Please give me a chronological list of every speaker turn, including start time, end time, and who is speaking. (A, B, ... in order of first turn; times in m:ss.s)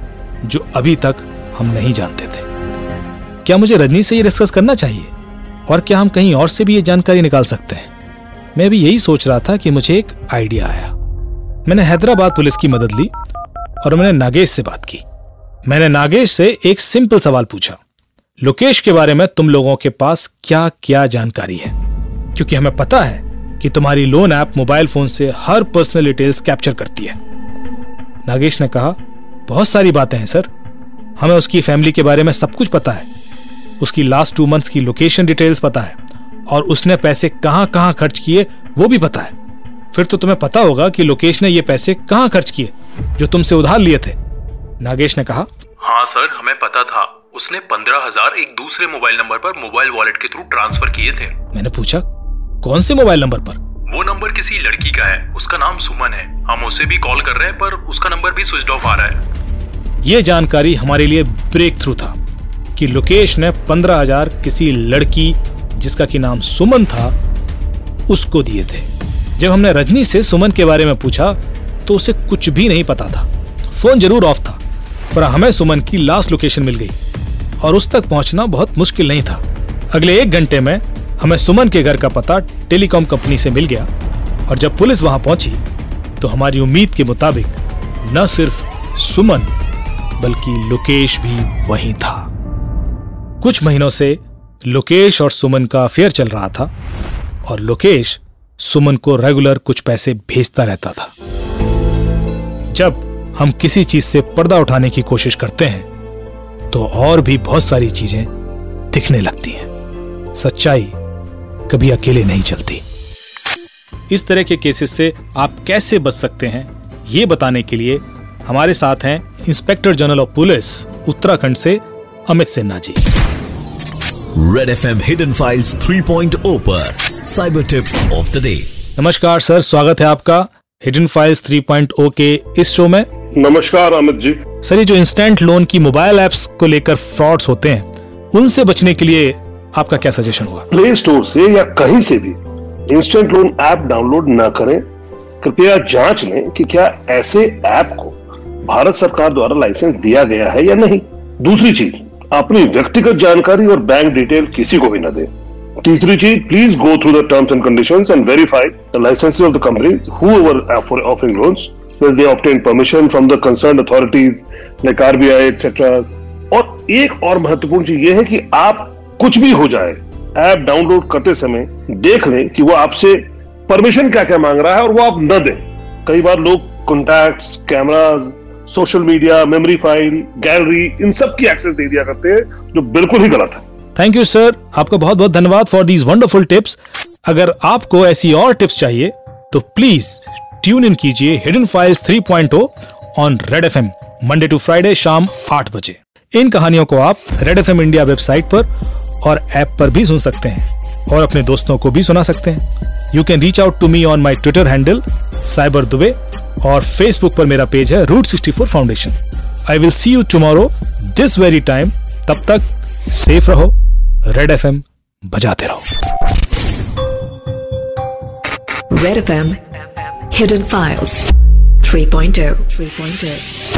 0:00.4-0:02.5 A
0:03.4-0:05.1 A
0:05.7-0:07.9 A
0:08.6-0:10.9 A
0:11.7-0:13.1 A
0:13.8-0:15.0 A
0:15.7-0:17.8 A
0:18.4-0:21.8 A
0:22.4-0:27.2 A
0:28.3-0:29.0 A
0:29.5-0:30.5 A
0:31.2-0:33.1 A
0:33.8-0:36.0 A
0:36.5-0:39.3 A
0:39.9-0:44.2 A
0:44.8-0:45.5 A
0:45.8-0:51.3 B
0:51.5-0:52.0 A
0:52.6-0:53.6 A
0:53.9-0:59.2 B
1:00.0-1:02.2 A
1:02.8-1:07.2 A
1:08.1-1:14.6 A
1:15.1-1:17.0 A
1:17.6-1:23.9 A
1:24.5-1:25.6 A
1:26.2-1:29.5 A
1:30.2-1:32.3 A
1:33.4-1:36.7 A
1:37.4-1:41.1 A
1:42.7-1:45.9 A
1:46.7-1:48.3 A
1:48.9-1:49.7 A
1:50.4-1:51.0 A
1:51.7-1:52.8 A
1:54.1-2:03.0 A
2:04.4-2:08.7 C
2:09.0-2:13.1 A
2:13.4-2:14.4 D
2:14.6-2:20.7 A
2:20.7-2:24.8 D
2:25.4-2:35.3 D
2:35.8-3:03.6 D
3:04.0-3:18.7 A
3:19.2-3:29.2 A
3:29.7-3:33.7 A
3:34.3-3:35.9 A
3:38.9-3:39.6 E
3:40.3-3:41.3 E
3:41.8-3:43.5 E